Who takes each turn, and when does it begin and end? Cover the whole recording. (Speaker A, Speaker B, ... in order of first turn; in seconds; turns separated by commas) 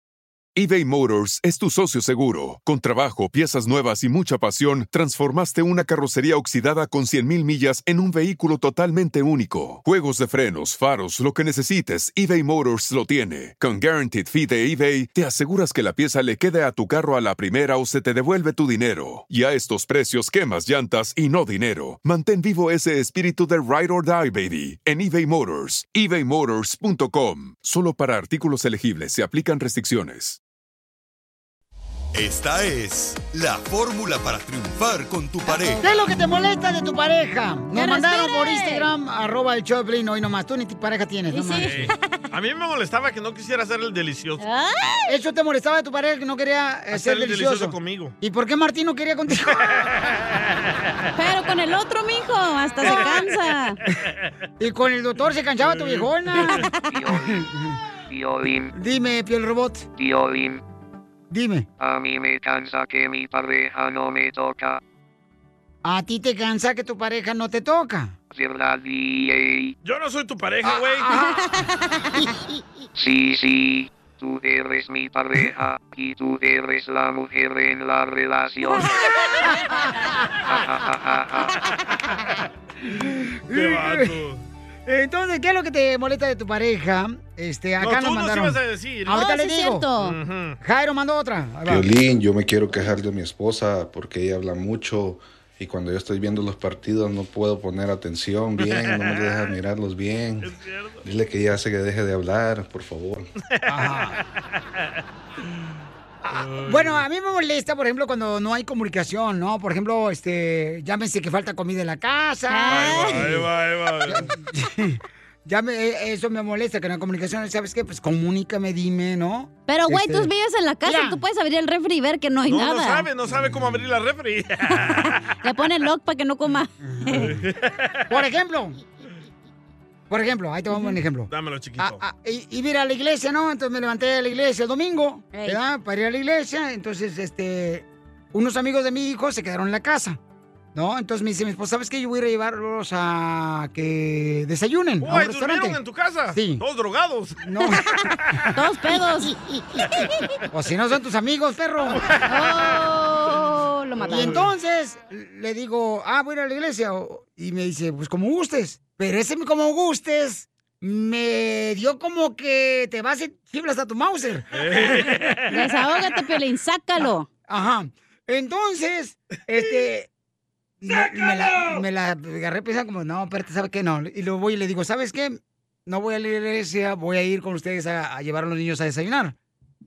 Speaker A: 0.5-30.4, Speaker B: 32.1-35.8, Speaker C: 35.8-41.9, Speaker D: 37.7-38.9, Speaker D: 41.3-42.2, Speaker E: 41.6-44.4, Speaker D: 44.4-45.1, Speaker C: 45.1-49.8, Speaker E: 46.9-48.1, Speaker E: 49.6-50.6, Speaker D: 51.1-53.8, Speaker E: 52.8-53.2, Speaker C: 54.6-56.7, Speaker E: 55.6-56.1, Speaker D: 56.4-56.8, Speaker F: 56.7-57.5, Speaker C: 57.3-57.8, Speaker F: 58.1-58.7, Speaker C: 58.7-59.9, Speaker F: 60.0-60.6, Speaker C: 61.3-61.7, Speaker F: 61.8-64.8, Speaker C: 65.8-68.1, Speaker F: 68.3-69.7, Speaker E: 69.8-71.2, Speaker C: 70.6-71.5, Speaker D: 71.1-72.0, Speaker F: 73.0-79.1, Speaker D: 78.8-79.6, Speaker F: 80.5-81.6, Speaker C: 83.5-84.2, Speaker E: 83.5-84.4, Speaker C: 84.9-89.8, Speaker E: 87.8-89.2, Speaker D: 89.1-90.2, Speaker E: 90.0-90.6, Speaker C: 90.6-91.9, Speaker G: 91.7-100.5, Speaker E: 98.6-99.5, Speaker E: 100.4-101.0, Speaker G: 101.0-103.3, Speaker E: 103.6-104.2, Speaker C: 103.7-104.2, Speaker C: 106.2-113.5, Speaker E: 106.3-107.0, Speaker D: 112.5-113.3, Speaker E: 112.7-114.3, Speaker C: 114.1-120.3, Speaker D: 119.7-123.1, Speaker C: 120.8-121.2, Speaker E: 122.5-125.1, Speaker D: 124.7-127.4, Speaker C: 126.8-127.4, Speaker E: 127.2-128.0, Speaker C: 128.1-128.8, Speaker C: 130.1-140.2, Speaker E: 131.3-132.0, Speaker D: 135.3-135.6, Speaker C: 140.7-145.8, Speaker E: 145.0-147.4, Speaker C: 146.3-146.6, Speaker C: 147.4-148.5, Speaker D: 148.5-150.3, Speaker C: 150.5-152.0, Speaker D: 152.3-154.4, Speaker E: 154.0-154.4, Speaker C: 154.1-165.0, Speaker E: 164.6-165.5, Speaker D: 165.5-167.3, Speaker C: 167.0-170.1, Speaker C: 170.8-179.3